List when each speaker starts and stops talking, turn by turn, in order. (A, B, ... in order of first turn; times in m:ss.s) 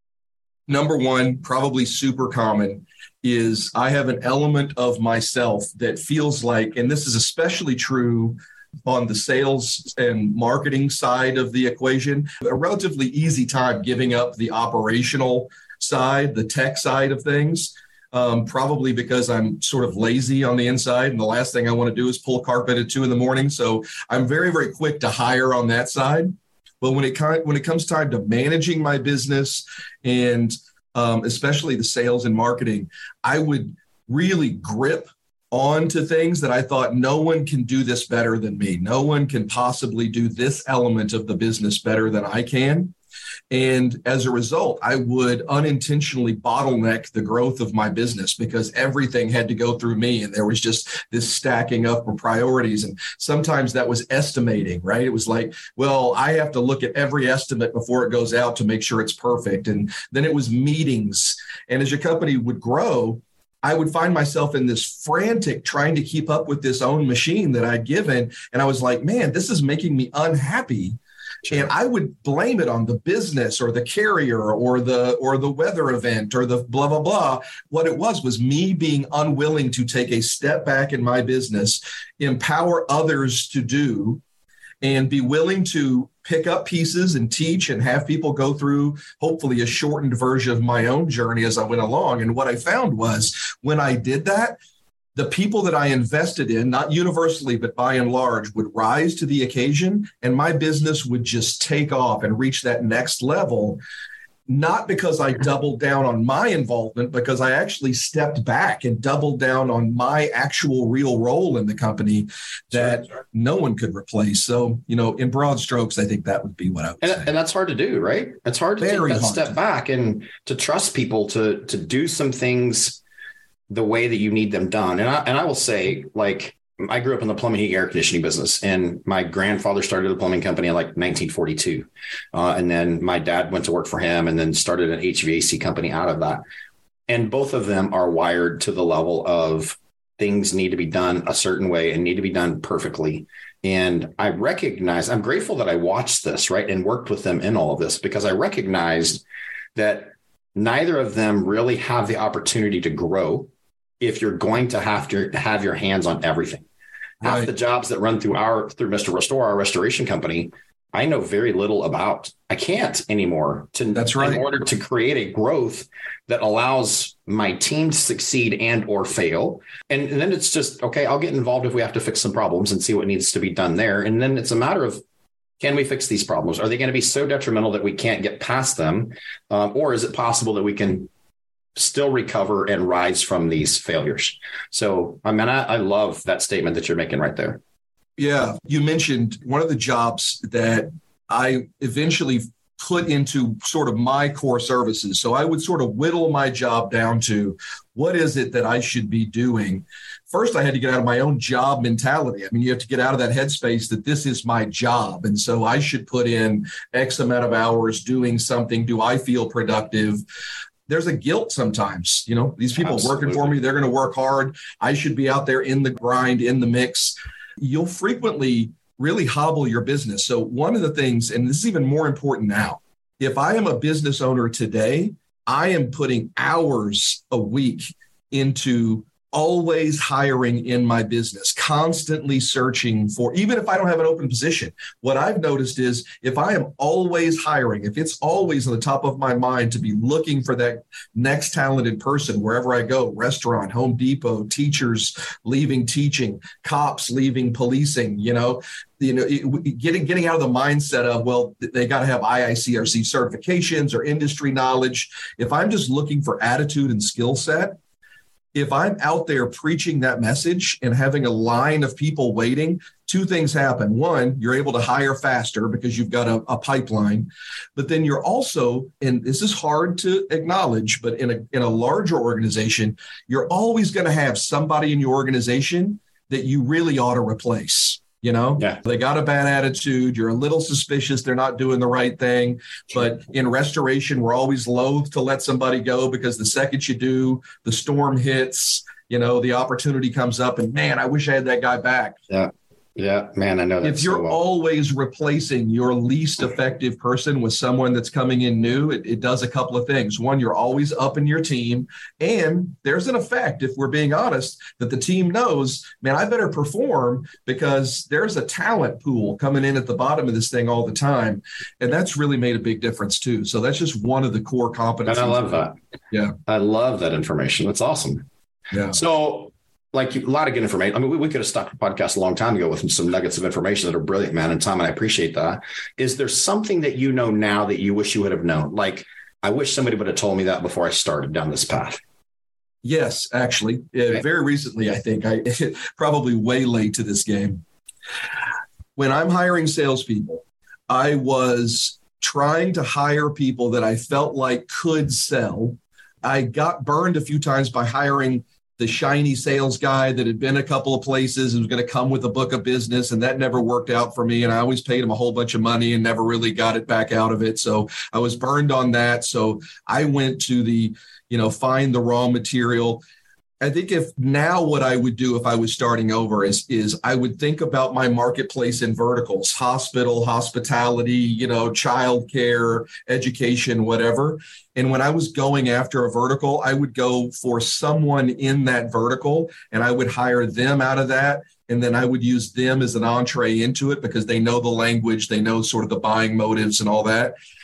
0:00.7-0:42.9 A
0:43.5-1:24.2 A
1:24.8-1:34.6 A
1:35.2-1:43.8 A
1:44.5-1:57.3 A
1:57.0-2:03.0 B
1:58.8-1:59.6 A
2:03.7-2:16.4 B
2:17.1-2:29.2 B
2:29.8-2:36.6 B
2:37.2-2:55.0 B
2:37.2-2:37.5 A
2:44.0-2:44.4 A
2:55.6-3:01.1 B
3:01.8-3:07.6 B
3:08.2-3:30.2 A
3:30.9-4:17.8 A
3:32.8-3:33.6 B
4:18.5-4:52.2 A
4:52.3-4:54.4 B
4:53.8-5:16.3 A
5:15.1-5:15.8 B
5:16.5-5:18.3 B
5:18.7-5:19.0 A
5:18.9-5:32.0 B
5:32.8-5:37.6 A
5:39.0-6:03.0 A
6:03.6-6:27.3 A